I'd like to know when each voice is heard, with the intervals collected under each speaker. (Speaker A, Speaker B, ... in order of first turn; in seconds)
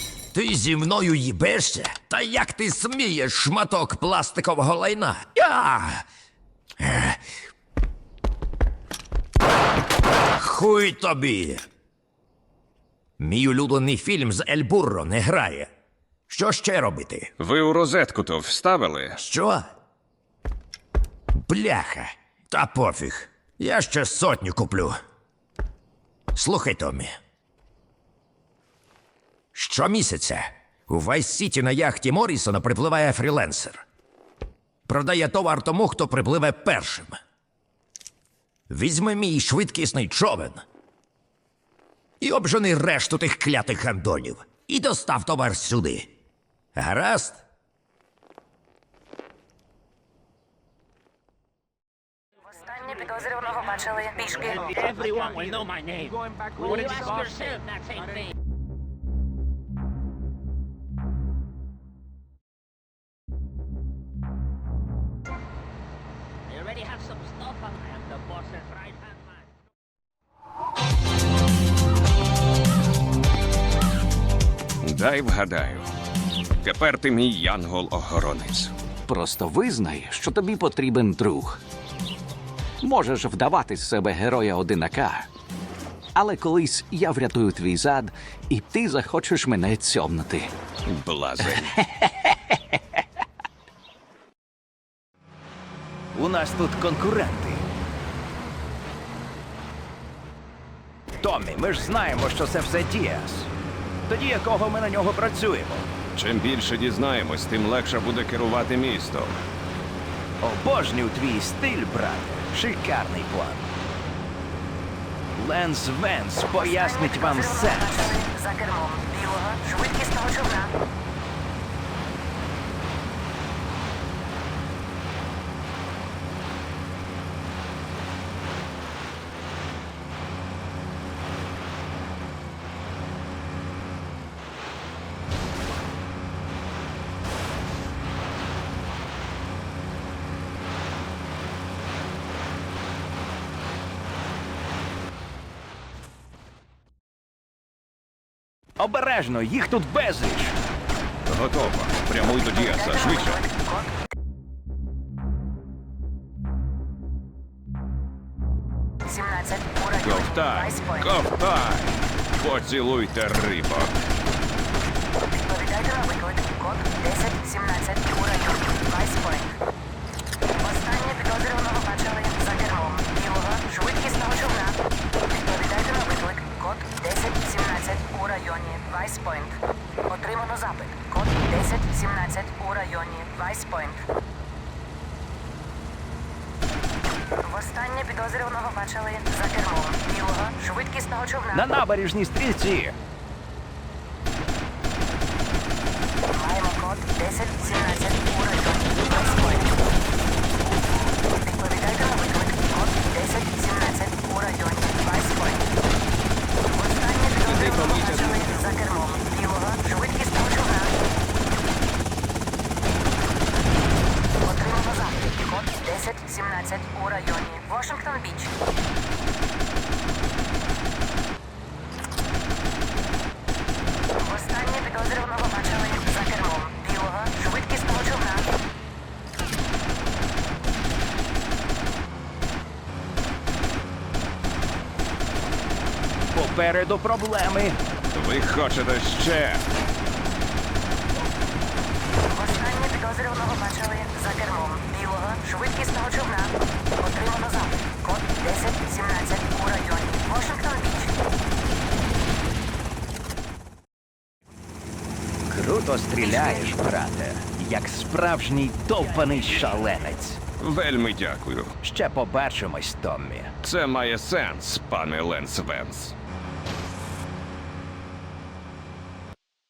Speaker A: 0.3-6.0, 6.8-7.2, 10.3-11.7, 13.2-15.7, 16.3-17.3, 19.2-19.7, 21.5-25.0, 26.3-27.1, 29.6-33.8, 34.9-37.2, 38.7-40.6, 42.2-46.1, 46.8-47.4
Speaker B: 17.4-19.2, 74.8-75.9, 76.6-78.7, 90.9-91.9, 106.1-109.4, 151.3-153.4, 160.0-164.1, 207.4-209.1, 238.1-239.7, 260.6-261.8, 263.6-266.1
Speaker C: 52.5-54.8, 116.5-120.7, 152.4-153.9, 159.1-161.1, 165.2-169.5, 170.5-184.0, 187.4-191.7, 196.3-199.7, 201.3-205.7, 206.7-210.9, 214.4-218.5, 224.2-228.5, 242.3-251.1, 256.2-256.7
Speaker D: 54.7-58.3, 66.5-69.4
Speaker E: 79.1-81.6, 82.8-85.3, 86.2-90.5, 92.2-92.5
Speaker F: 96.1-97.7, 101.2-103.5, 104.1-105.9, 110.4-113.7, 115.4-118.0, 148.8-150.6, 191.5-193.0, 236.3-237.8, 255.5-260.4, 261.8-263.5